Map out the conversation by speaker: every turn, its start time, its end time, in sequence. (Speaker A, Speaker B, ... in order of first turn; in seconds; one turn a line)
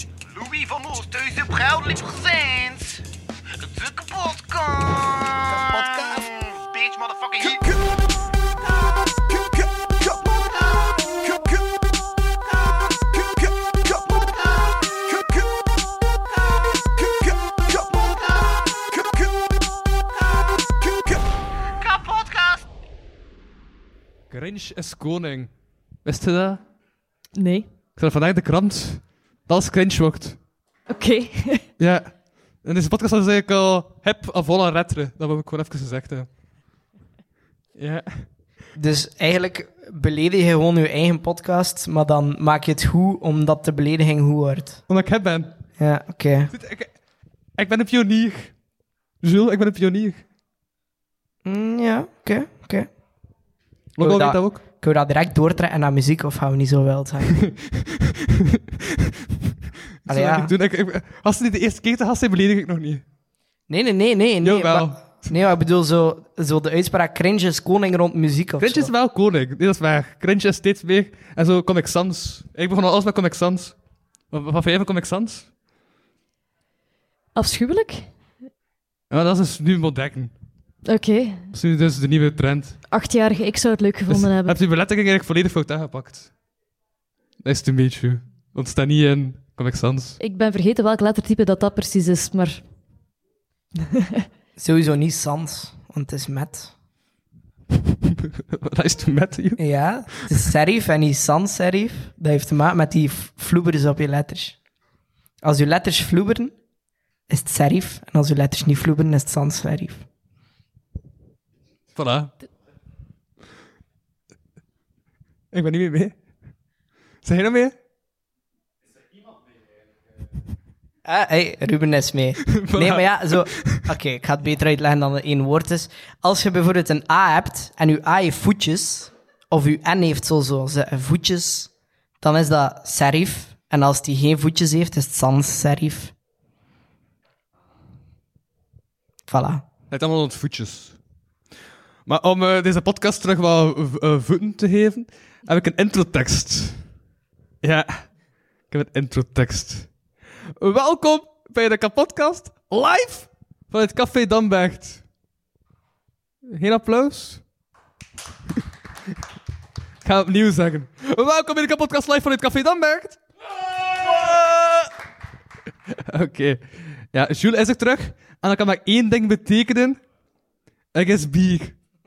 Speaker A: 0.3-3.0
Speaker A: 3.6-7.8
Speaker A: 10.1-11.4
Speaker A: 18.2-18.6
Speaker A: 21.8-22.5
Speaker B: 24.3-26.6
Speaker C: 27.3-27.7
Speaker B: 27.9-30.4
Speaker C: 30.9-31.7
Speaker B: 31.8-36.3
Speaker B: 37.8-38.3
Speaker D: 38.8-44.8
Speaker B: 44.9-45.6
Speaker D: 45.8-46.5
Speaker B: 46.5-47.0
Speaker B: 47.5-48.6
Speaker B: 49.2-50.2
Speaker D: 51.4-52.9
Speaker B: 54.0-54.6
Speaker D: 54.0-57.4
Speaker B: 57.3-59.1
Speaker B: 60.0-63.0
Speaker D: 60.1-60.5
Speaker D: 63.7-68.9
Speaker B: 64.4-65.3
Speaker B: 68.6-73.8
Speaker B: 74.3-75.5
Speaker C: 77.3-78.1
Speaker B: 79.1-80.3
Speaker C: 80.8-81.5
Speaker B: 81.5-82.9
Speaker C: 82.9-84.6
Speaker B: 84.1-86.3
Speaker B: 87.4-90.2
Speaker C: 90.2-92.7
Speaker D: 94.6-96.7
Speaker B: 98.5-100.3
Speaker D: 99.6-104.6
Speaker D: 105.4-106.5
Speaker D: 107.3-110.0
Speaker B: 111.9-112.3
Speaker B: 115.5-116.2
Speaker B: 117.2-117.7
Speaker D: 121.0-136.1
Speaker B: 122.5-123.9
Speaker D: 139.3-139.6
Speaker B: 139.9-141.0
Speaker B: 142.1-146.9
Speaker B: 147.6-155.0
Speaker B: 156.4-157.4
Speaker B: 160.0-163.2
Speaker B: 163.8-164.9
Speaker B: 166.1-170.1
Speaker B: 170.9-171.8